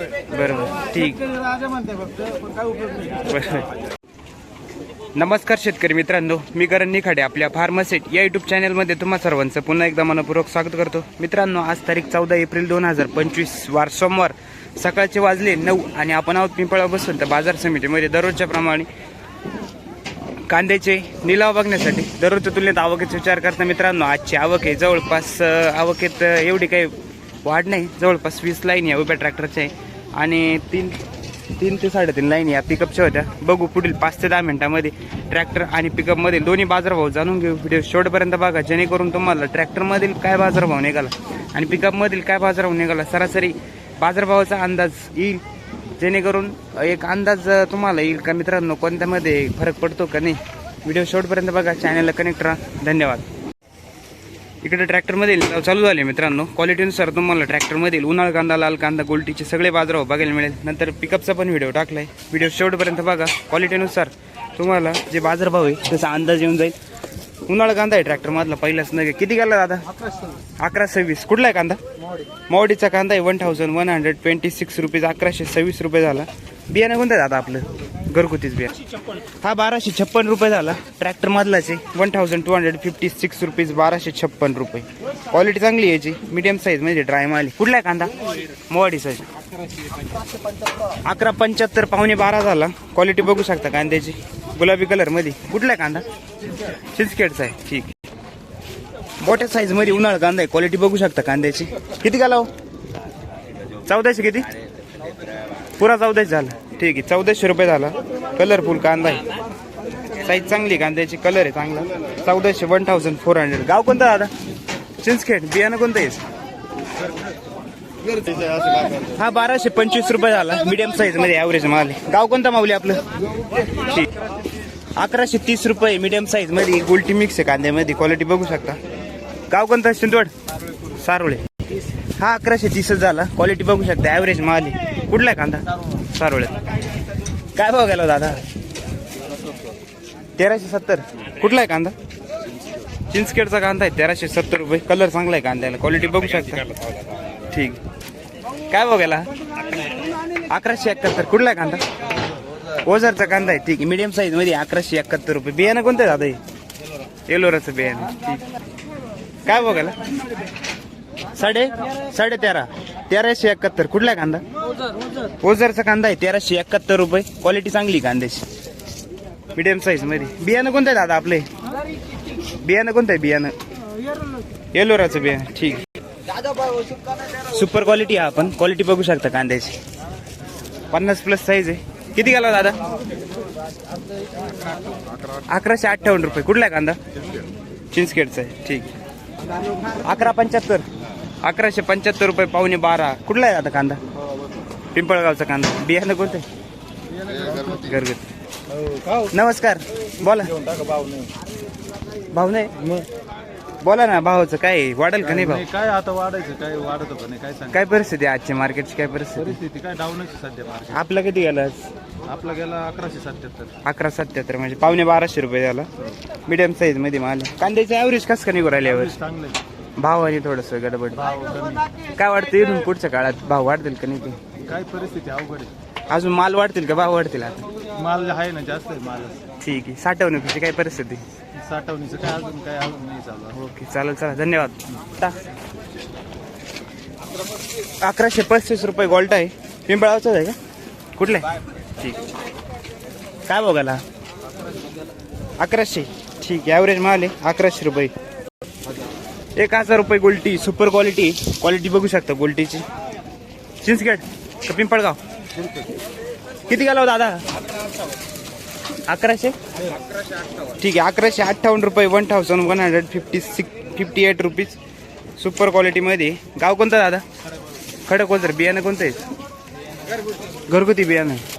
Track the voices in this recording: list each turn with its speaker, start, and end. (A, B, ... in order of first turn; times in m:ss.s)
0:00.3-0:01.2 A
0:01.3-0:03.3 B
0:03.3-0:03.7 A
0:05.2-0:18.9 A
0:20.5-0:31.0 A
0:31.6-0:45.4 A
0:46.0-0:53.2 A
0:54.6-1:06.8 A
1:07.5-1:09.9 A
1:10.6-1:11.8 A
1:12.5-1:18.8 A
1:19.4-1:29.3 A
1:31.0-1:36.0 A
1:36.9-1:37.9 A
1:39.2-1:42.5 A
1:43.9-1:44.5 A
1:45.8-1:49.2 A
1:50.2-1:54.3 A
1:55.0-1:56.2 A
1:59.1-2:03.1 A
2:03.7-2:04.1 A
2:05.0-2:08.8 A
2:09.5-2:10.3 A
2:10.9-2:11.4 A
2:12.2-2:16.6 A
2:17.6-2:18.4 A
2:20.4-2:22.0 A
2:23.1-2:26.8 A
2:27.5-2:27.8 A
2:28.7-2:29.3 A
2:30.5-2:31.8 A
2:32.8-2:36.4 A
2:37.3-2:38.4 A
2:39.5-2:40.0 A
2:41.3-2:44.4 A
2:45.4-2:48.4 A
2:49.6-2:51.5 A
2:52.6-2:53.6 A
2:54.8-2:55.9 A
2:57.4-2:59.8 A
3:00.9-3:02.8 A
3:05.5-3:07.0 A
3:07.9-3:08.9 A
3:10.0-3:10.8 A
3:11.4-3:14.0 A
3:15.0-3:16.4 A
3:17.1-3:17.9 B
3:17.8-3:18.2 A
3:19.2-3:20.6 A
3:20.5-3:21.3 B
3:22.3-3:22.9 A
3:23.8-3:25.7 A
3:25.3-3:27.8 B
3:27.7-3:29.6 A
3:29.5-3:31.0 B
3:30.9-3:31.9 A
3:32.2-3:33.8 B
3:33.8-3:35.9 A
3:36.5-3:39.2 A
3:38.9-3:39.6 B
3:40.0-3:41.3 A
3:41.2-3:41.9 B
3:42.1-3:44.4 A
3:44.6-3:45.7 B
3:46.1-3:47.6 A
3:47.9-3:49.5 B
3:49.6-3:51.2 A
3:51.6-3:53.6 B
3:53.5-3:55.4 A
3:58.0-4:00.6 A
4:01.2-4:01.5 A
4:02.0-4:02.3 A
4:03.5-4:04.0 A
4:05.6-4:08.1 A
4:09.6-4:12.8 A
4:13.8-4:15.2 A
4:16.7-4:17.4 A
4:19.1-4:19.6 A
4:20.8-4:24.8 A
4:25.4-4:27.2 A
4:28.1-4:29.2 A
4:30.7-4:31.4 A